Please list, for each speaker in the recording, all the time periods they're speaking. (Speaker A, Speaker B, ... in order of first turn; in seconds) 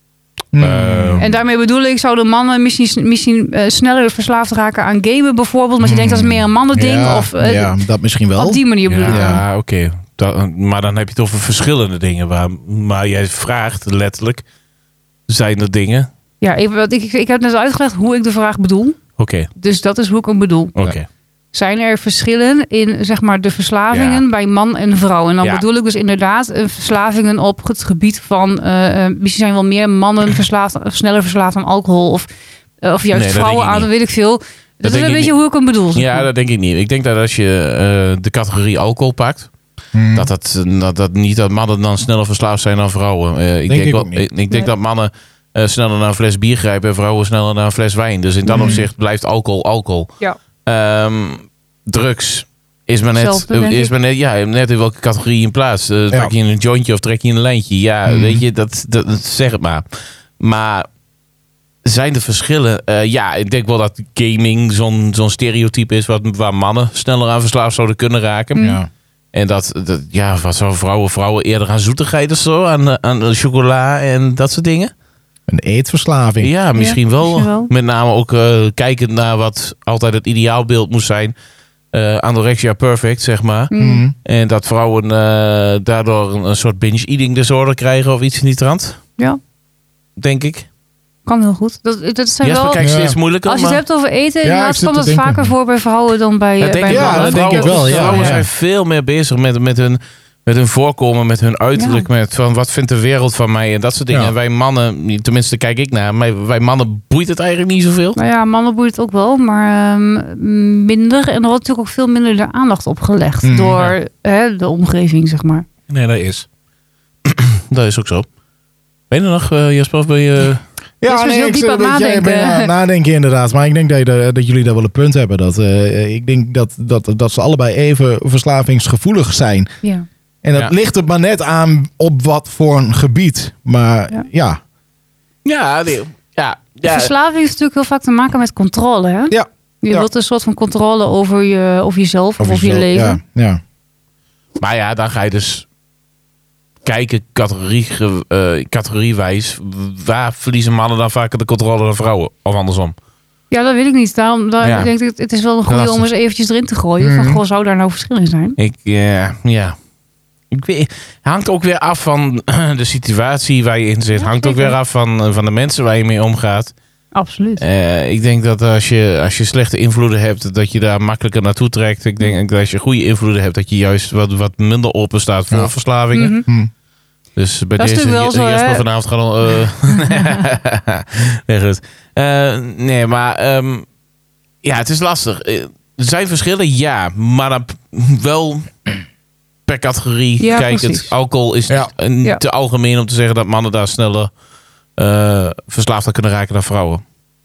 Speaker A: 0.5-1.2, 5.8-9.4, 39.9-40.3, 43.7-44.2, 48.5-48.9, 58.1-58.4, 68.6-68.9, 75.5-76.5, 83.8-84.1, 92.8-93.2, 94.4-95.5, 96.9-98.5, 113.4-113.8, 121.0-129.7, 130.4-134.6, 139.3-140.1, 142.4-143.6, 157.0-157.4
Speaker B: 0.6-1.3, 8.9-14.4, 15.3-16.1, 19.2-19.5, 20.8-21.1, 23.9-24.2, 33.1-33.9, 34.8-35.3, 35.9-39.5, 40.1-50.1, 50.6-59.8, 60.4-60.9, 61.8-68.7, 69.3-74.9, 76.4-81.3, 81.9-83.7, 84.2-89.0, 90.2-90.7, 92.4-93.8, 96.6-108.2, 115.9-116.5, 117.2-118.2, 119.1-120.6, 135.4-137.1, 144.6-145.7, 146.8-152.9, 154.6-154.9, 155.7-156.1, 158.6-159.8, 160.5-166.7, 167.6-176.4, 177.3-183.8, 184.6-189.0, 189.7-194.3, 195.0-197.0
Speaker C: 1.2-7.7, 8.3-9.4, 16.4-19.0, 19.6-20.7, 21.5-32.3, 32.8-36.3, 53.1-53.9, 68.5-68.8, 76.8-77.7, 83.7-84.0, 91.2-92.8, 93.4-98.4, 101.8-102.0, 108.2-115.7, 121.0-122.7, 136.8-143.2, 153.5-158.6, 164.2-164.7, 167.1-167.6, 176.1-176.4, 177.8-178.8, 179.9-180.4, 190.4-191.1